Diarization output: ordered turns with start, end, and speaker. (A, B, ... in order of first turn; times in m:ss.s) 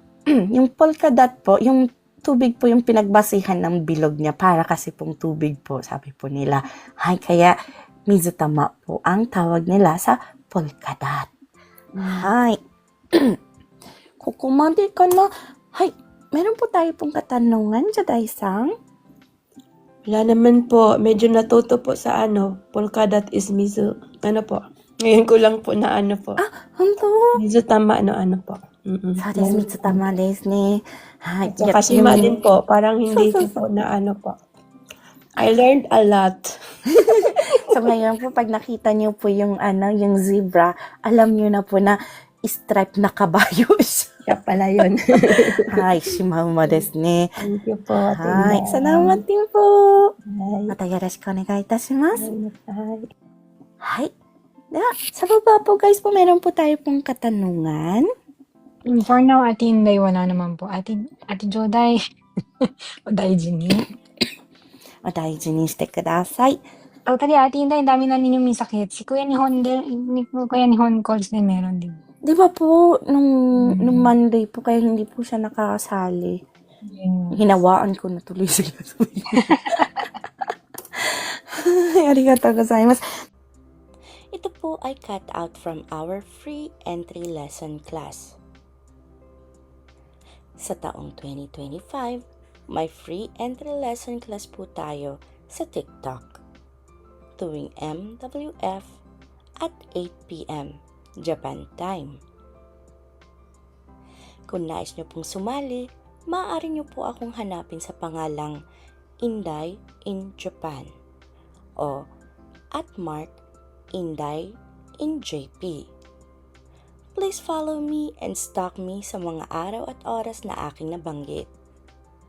0:00.3-0:07.6 A
0:08.1-0:11.3 A
0:12.0-0:12.3 B
0:12.0-0:12.6 A
0:14.2-0:18.7 A
0:20.1-0:26.4 B
0:26.4-0:27.4 A
0:27.4-0:30.0 B
0:29.2-0:32.3 A
0:31.5-0:34.4 B
0:33.1-0:33.6 A
0:35.4-0:36.5 B
0:37.0-0:44.1 A
0:37.1-0:37.6 B
0:44.3-0:45.7 B
0:45.7-0:47.3 A
0:47.4-0:49.2 B
0:48.1-0:50.1 A
0:50.3-0:50.7 B
0:50.7-0:52.3 A
0:52.2-0:53.1 B
0:53.8-0:54.1 A
0:54.7-0:58.1 A
0:58.9-1:02.0 C
1:03.1-1:03.9 C
1:05.0-1:06.6 A
1:07.1-1:12.0 C
1:12.2-1:16.4 A
1:13.6-1:14.1 C
1:16.9-1:17.4 C
1:17.3-1:20.1 A
1:21.0-1:23.0 A
1:24.3-1:28.4 A
1:30.6-1:36.4 A
1:37.4-1:39.0 A
1:39.6-1:42.2 A
1:44.5-1:48.6 A
1:49.2-1:50.9 A
1:51.8-1:52.1 A
1:52.8-1:53.4 A
1:53.9-1:55.9 A
1:57.2-2:01.5 A